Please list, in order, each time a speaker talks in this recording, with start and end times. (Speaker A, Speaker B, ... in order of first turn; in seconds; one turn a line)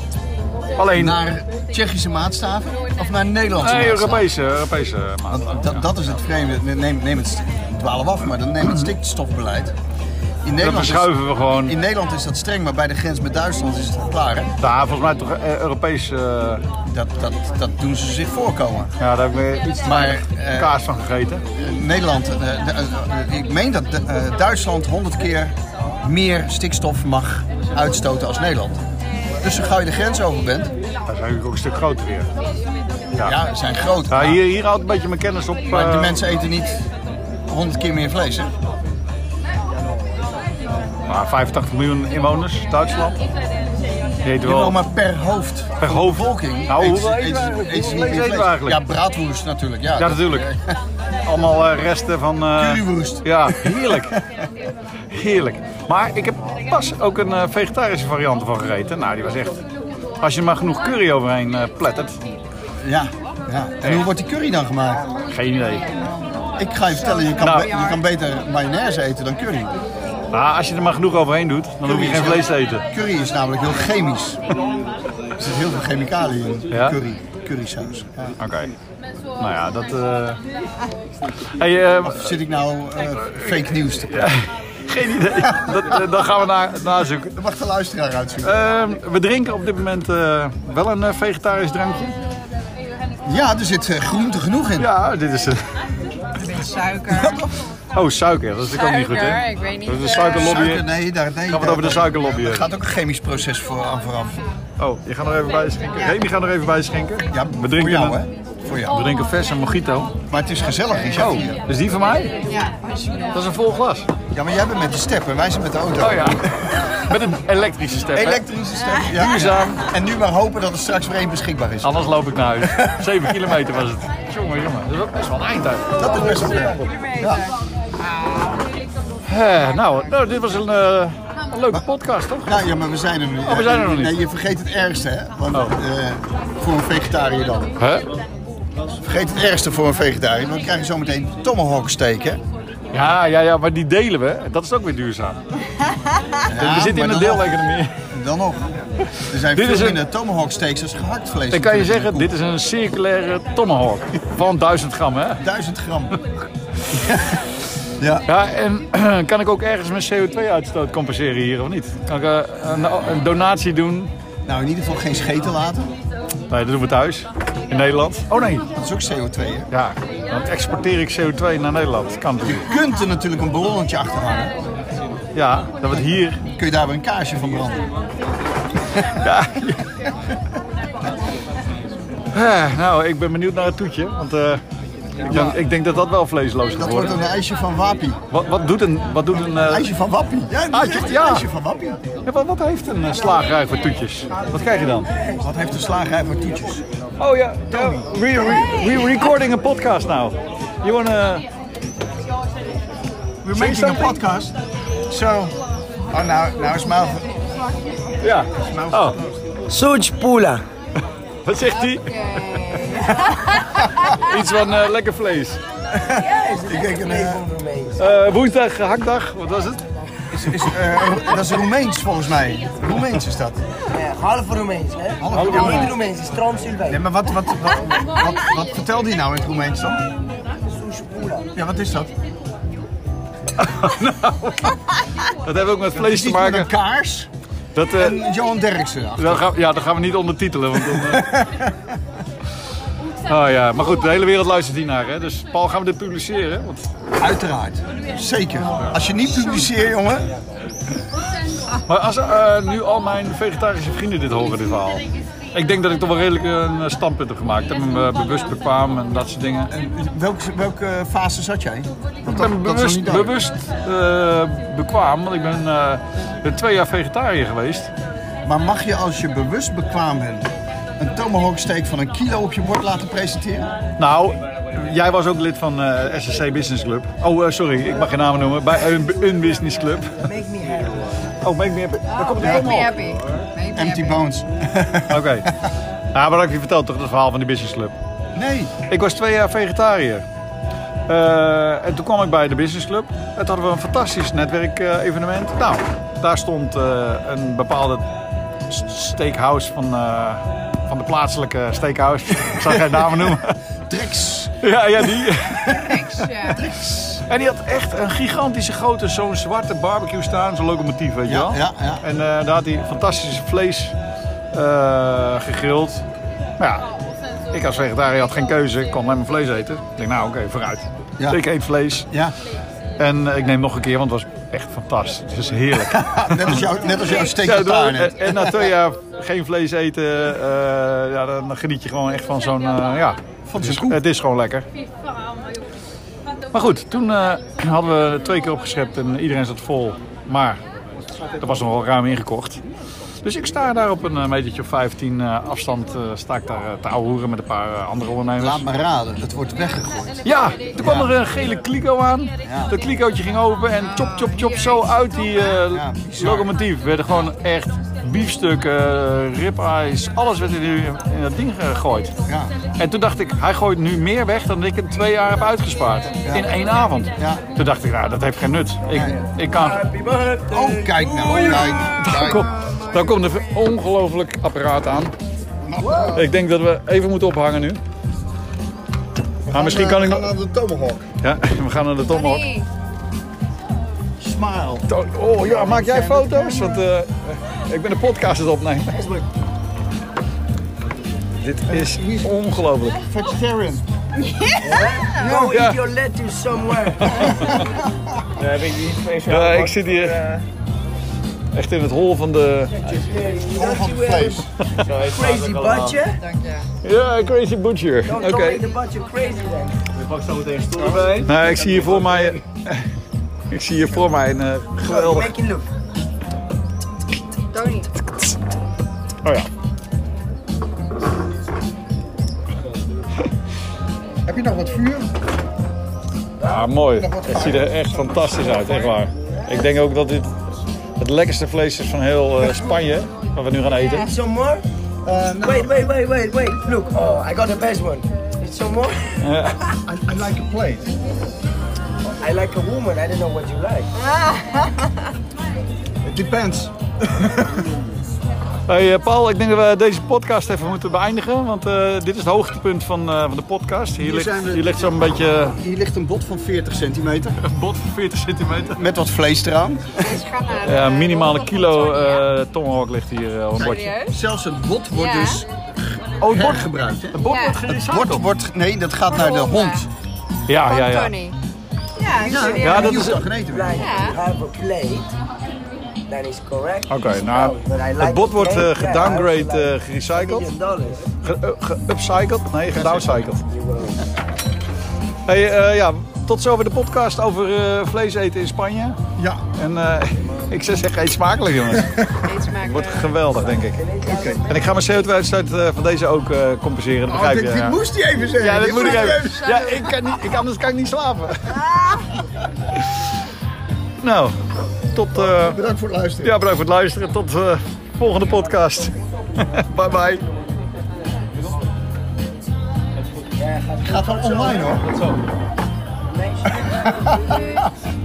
Speaker A: 0.8-1.2
Speaker B: 0.9-4.3
Speaker A: 3.6-5.9
Speaker B: 5.3-9.7
Speaker B: 10.4-14.5
Speaker A: 10.6-11.8
Speaker A: 14.6-16.6
Speaker B: 16.9-18.9
Speaker A: 19.0-21.4
Speaker B: 19.8-20.8
Speaker B: 21.5-28.8
Speaker B: 29.4-30.7
Speaker A: 31.1-32.3
Speaker B: 33.2-34.4
Speaker A: 34.1-36.3
Speaker B: 35.7-36.9
Speaker B: 37.5-38.5
Speaker A: 41.1-43.2
Speaker A: 44.2-44.8
Speaker B: 44.4-50.8
Speaker A: 45.8-48.8
Speaker A: 50.0-50.5
Speaker A: 51.2-54.2
Speaker B: 52.6-54.2
Speaker A: 55.1-59.6
Speaker A: 60.2-62.2
Speaker B: 62.8-65.0
Speaker A: 63.8-64.1
Speaker A: 65.3-65.9
Speaker C: 65.9-66.4
Speaker B: 66.6-69.7
Speaker C: 67.1-67.5
Speaker A: 67.4-67.8
Speaker A: 70.3-72.8
Speaker B: 71.8-74.4
Speaker B: 75.4-78.4
Speaker A: 76.7-77.0
Speaker A: 78.4-78.7
Speaker A: 79.4-80.4
Speaker A: 81.4-82.4
Speaker B: 82.0-84.3
Speaker A: 83.2-83.5
Speaker A: 84.1-87.4
Speaker B: 85.3-86.0
Speaker B: 87.3-88.6
Speaker A: 88.4-92.2
Speaker B: 93.2-94.9
Speaker A: 94.8-95.6
Speaker C: 96.3-97.4
Speaker B: 97.1-97.5
Speaker A: 97.9-100.8
Speaker C: 98.7-100.6
Speaker B: 100.2-104.4
Speaker A: 101.5-102.7
Speaker A: 104.8-108.2
Speaker B: 107.3-109.0
Speaker A: 108.9-110.2
Speaker B: 110.3-111.6
Speaker A: 111.1-112.4
Speaker C: 112.4-113.4
Speaker A: 113.3-114.1
Speaker B: 114.3-117.2
Speaker A: 116.0-118.5
Speaker B: 118.1-123.5
Speaker A: 119.1-119.8
Speaker A: 121.8-126.3
Speaker B: 126.0-127.5
Speaker C: 126.3-127.5
Speaker C: 128.1-128.6
Speaker A: 129.2-132.6
Speaker B: 132.4-137.7
Speaker A: 133.4-134.2
Speaker A: 137.8-138.1
Speaker B: 138.9-142.4
Speaker A: 142.9-145.4
Speaker B: 146.4-152.3
Speaker A: 146.5-147.9
Speaker A: 149.3-150.0
Speaker A: 151.5-155.4
Speaker B: 155.4-156.2
Speaker B: 156.9-157.4
Speaker B: 158.0-158.3
Speaker A: 158.3-164.1
Speaker B: 164.5-165.9
Speaker A: 166.5-168.7
Speaker B: 168.7-169.7
Speaker A: 169.7-172.7
Speaker B: 172.4-174.6
Speaker A: 175.3-176.4
Speaker B: 176.4-177.9
Speaker A: 179.2-179.8
Speaker A: 182.3-184.6
Speaker A: 185.3-187.2
Speaker B: 185.3-185.6
Speaker B: 186.8-188.2
Speaker A: 188.3-189.9
Speaker B: 189.5-192.0
Speaker A: 190.7-191.5
Speaker A: 192.2-195.1
Speaker B: 195.4-196.8
Speaker A: 197.2-201.5
Speaker B: 197.7-198.9
Speaker B: 203.4-204.6
Speaker A: 203.5-204.2
Speaker B: 205.1-205.6
Speaker B: 206.1-207.3
Speaker A: 208.2-209.2
Speaker B: 208.6-209.2
Speaker D: 209.7-210.6
Speaker A: 211.4-215.6
Speaker C: 211.9-213.9
Speaker B: 215.9-217.4
Speaker D: 216.1-218.1
Speaker A: 218.0-219.9
Speaker B: 220.3-223.6
Speaker D: 223.9-227.0
Speaker B: 225.2-226.0
Speaker A: 225.3-226.0
Speaker B: 226.9-230.1
Speaker D: 230.7-231.5
Speaker B: 231.5-232.1
Speaker A: 233.6-236.7
Speaker B: 235.9-237.3
Speaker A: 237.8-238.2
Speaker B: 238.0-239.5
Speaker A: 239.2-241.4
Speaker B: 240.9-241.8
Speaker A: 243.3-246.9
Speaker B: 247.2-250.3
Speaker A: 251.7-259.7
Speaker B: 259.7-263.4
Speaker A: 262.3-267.9
Speaker B: 268.4-273.7
Speaker A: 274.0-280.1
Speaker D: 280.2-281.2
Speaker A: 281.4-283.0
Speaker C: 282.2-284.2
Speaker B: 282.4-282.7
Speaker B: 283.7-285.6
Speaker A: 285.1-285.6
Speaker A: 286.1-287.9
Speaker B: 288.4-288.7
Speaker A: 288.9-290.2
Speaker A: 291.1-298.0
Speaker A: 298.7-303.6
Speaker B: 302.6-305.1
Speaker A: 304.6-306.3
Speaker C: 305.7-306.6
Speaker B: 306.5-307.2
Speaker A: 307.1-313.9
Speaker B: 311.2-312.0
Speaker A: 314.5-316.0
Speaker A: 316.6-316.9
Speaker A: 317.5-322.1
Speaker A: 323.0-326.6
Speaker B: 325.8-328.7
Speaker A: 327.2-334.7
Speaker B: 333.5-334.0
Speaker A: 336.5-340.6
Speaker A: 341.4-342.6
Speaker A: 343.2-348.7
Speaker B: 348.4-350.2
Speaker A: 350.2-362.1
Speaker B: 350.8-351.1
Speaker B: 352.4-352.7
Speaker B: 355.7-356.5
Speaker B: 362.3-362.5
Speaker A: 362.8-369.9
Speaker B: 366.2-366.5
Speaker B: 367.2-367.4
Speaker B: 368.9-369.2
Speaker D: 369.5-371.7
Speaker B: 370.5-372.6
Speaker A: 371.2-375.1
Speaker C: 372.7-373.0
Speaker B: 375.7-376.3
Speaker D: 375.8-376.2
Speaker A: 376.1-377.8
Speaker B: 379.5-381.1
Speaker A: 379.5-380.3
Speaker A: 381.2-382.5
Speaker C: 382.1-382.7
Speaker B: 384.2-384.9
Speaker A: 384.9-389.0
Speaker D: 385.5-386.2
Speaker D: 388.9-389.3
Speaker A: 391.4-393.0
Speaker B: 391.7-393.9
Speaker D: 394.6-397.6
Speaker B: 395.2-395.5
Speaker A: 395.3-395.8
Speaker A: 396.9-397.6
Speaker E: 398.4-400.4
Speaker A: 399.2-400.3
Speaker A: 401.5-403.0
Speaker D: 403.0-406.2
Speaker B: 403.5-404.5
Speaker E: 404.8-406.0
Speaker C: 406.2-406.7
Speaker A: 406.8-408.7
Speaker D: 408.1-409.8
Speaker E: 410.0-412.4
Speaker A: 411.2-412.9
Speaker A: 413.5-415.3
Speaker D: 414.8-415.7
Speaker C: 417.5-417.9
Speaker A: 419.2-419.5
Speaker B: 424.2-425.1
Speaker D: 426.4-426.7
Speaker A: 426.4-430.3
Speaker B: 426.9-429.0
Speaker A: 431.0-434.1
Speaker D: 433.8-434.7
Speaker B: 435.1-435.7
Speaker D: 435.4-439.3
Speaker A: 439.2-439.8
Speaker B: 439.9-440.9
Speaker D: 442.2-444.1
Speaker B: 446.1-447.6
Speaker A: 448.7-455.6
Speaker B: 454.0-457.4
Speaker A: 457.4-458.8
Speaker B: 458.7-460.2
Speaker C: 460.0-462.2
Speaker A: 460.6-463.9
Speaker B: 463.6-469.9
Speaker C: 463.6-464.2
Speaker C: 464.9-465.4
Speaker A: 466.2-468.3
Speaker C: 467.2-467.6
Speaker C: 469.1-469.9
Speaker A: 470.5-471.1
Speaker C: 470.6-471.4
Speaker C: 472.0-473.0
Speaker B: 472.1-473.9
Speaker D: 472.3-475.1
Speaker A: 472.6-473.2
Speaker C: 473.8-474.2
Speaker D: 476.1-481.1
Speaker A: 476.9-480.5
Speaker A: 481.2-483.4
Speaker B: 482.7-483.3
Speaker D: 483.5-484.0
Speaker A: 485.3-489.0
Speaker B: 489.2-489.4
Speaker A: 489.5-497.8
Speaker B: 491.8-492.1
Speaker C: 492.2-493.1
Speaker D: 493.6-494.8
Speaker B: 494.0-494.4
Speaker B: 497.1-499.6
Speaker A: 498.4-501.7
Speaker C: 498.6-499.9
Speaker A: 504.0-504.4
Speaker A: 504.9-505.6
Speaker B: 505.3-506.4
Speaker A: 506.2-510.2
Speaker D: 513.7-514.8
Speaker B: 513.8-515.0
Speaker D: 516.3-516.6
Speaker B: 516.6-517.7